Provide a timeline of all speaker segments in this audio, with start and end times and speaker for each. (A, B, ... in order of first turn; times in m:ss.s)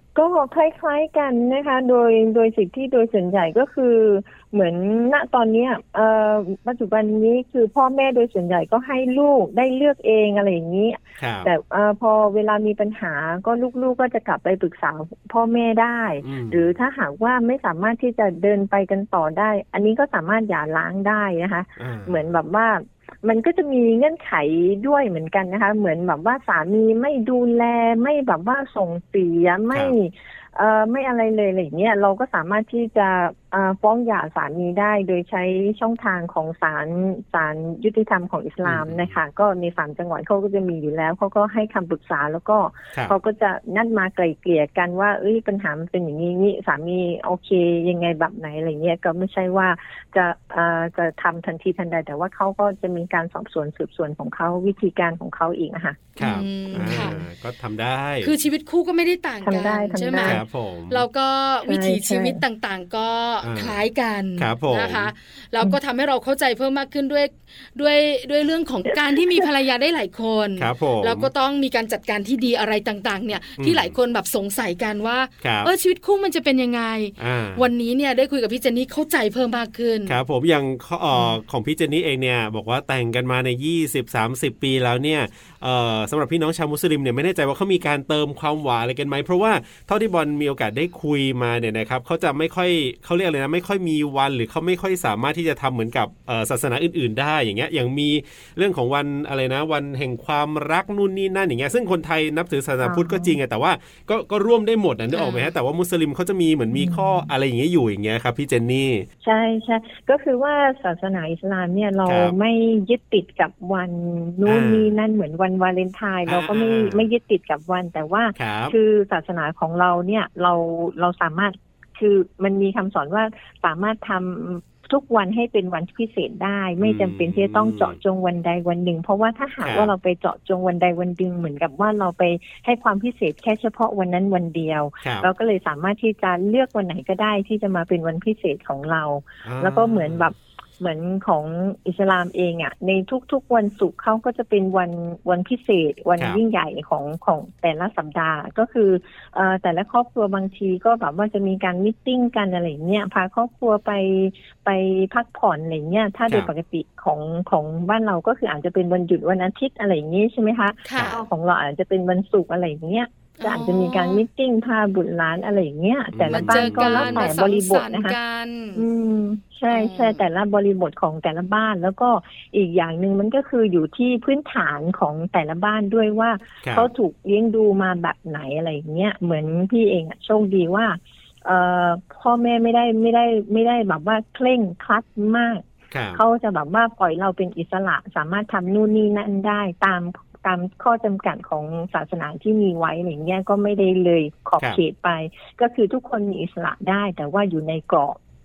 0:00.1-0:56.1 A
0:11.2-0:11.5 B
0:16.2-0:16.7 B
0:21.8-0:22.2 B
0:38.6-0:39.1 B
0:56.2-0:58.3 B
0:56.2-0:57.2 C
0:56.8-0:57.2 A
0:58.2-1:20.2 C
0:59.4-1:00.4 A
1:00.2-1:01.0 B
1:01.6-1:02.4 A
1:03.4-1:03.8 B
1:04.4-1:05.1 B
1:10.6-1:11.3 B
1:13.6-1:13.9 B
1:15.4-1:15.7 B
1:17.2-1:17.6 B
1:20.1-1:49.0 B
1:42.8-1:43.4 A
1:45.1-1:45.5 C
1:46.7-1:47.3 A
1:49.2-2:48.2 A
1:52.0-1:52.3 B
1:54.4-1:54.9 B
1:56.3-1:57.1 B
1:58.4-1:58.7 B
2:06.8-2:08.0 B
2:09.6-2:09.9 B
2:15.0-2:15.3 B
2:19.4-2:20.3 B
2:40.8-2:41.2 C
2:43.4-2:44.2 C
2:46.1-2:47.4 B
2:46.3-2:48.8 C
2:48.7-3:18.2 A
2:49.7-2:50.2 C
2:56.6-2:56.9 B
3:05.9-3:06.2 B